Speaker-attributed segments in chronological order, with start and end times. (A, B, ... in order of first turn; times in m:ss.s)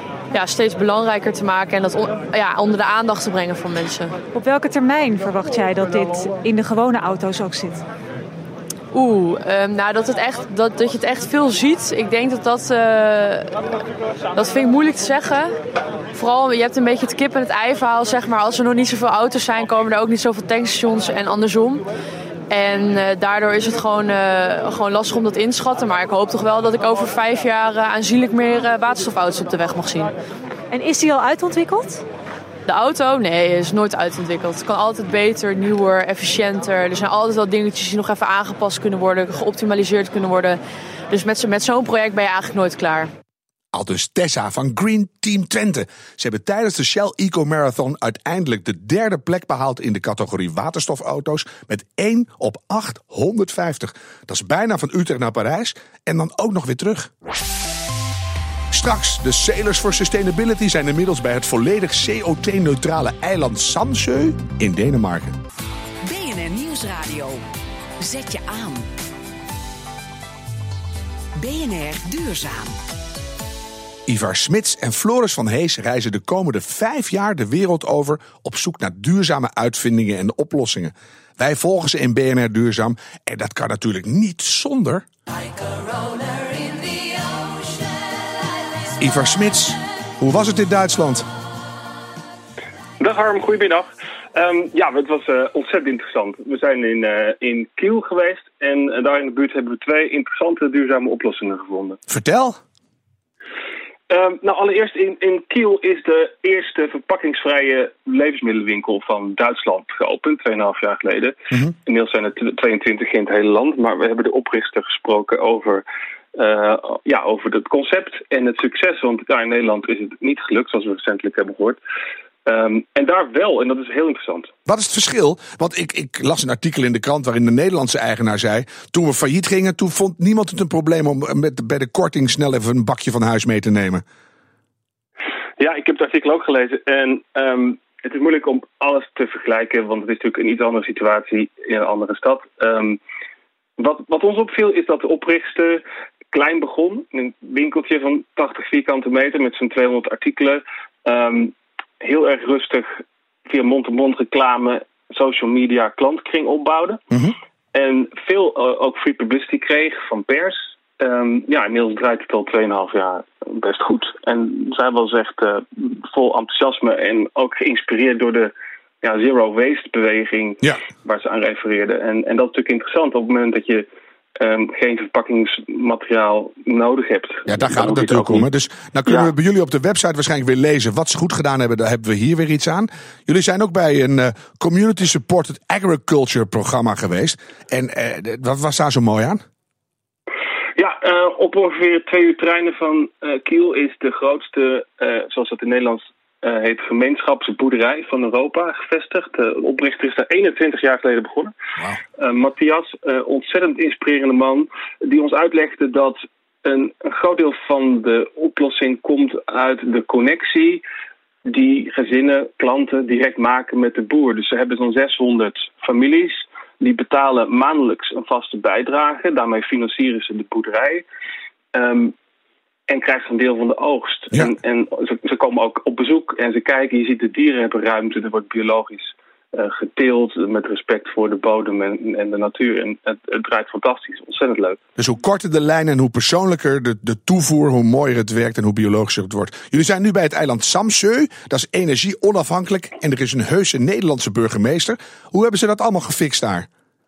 0:00.3-0:04.2 A
0:04.3-0:07.8 B
0:08.9-0:13.5 A
0:14.4-0:15.6 A
0:16.1-0:21.9 A
0:22.5-0:30.1 A
0:30.7-0:32.0 B
0:32.7-0:43.1 A
0:43.7-0:57.1 C
0:58.7-1:05.4 C
1:06.0-1:07.4 D
1:08.0-1:08.9 D
1:11.4-1:12.8 D
1:14.1-1:25.1 C
1:29.0-1:31.3 C
1:33.0-1:42.0 E
1:42.1-1:42.6 C
1:44.1-1:55.8 E
1:56.4-2:01.8 E
2:02.5-2:04.5 E
2:04.7-2:14.0 C
2:15.6-2:23.0 E
2:23.8-2:37.0 E
2:37.7-2:53.9 E
2:54.4-2:58.5 E
2:57.5-3:09.4 C
2:59.1-2:59.3 E
3:10.8-3:21.5 E
3:22.2-3:30.8 E
3:31.4-3:41.0 E
3:41.7-3:42.2 E
3:42.9-3:54.8 E
3:55.0-4:06.7 C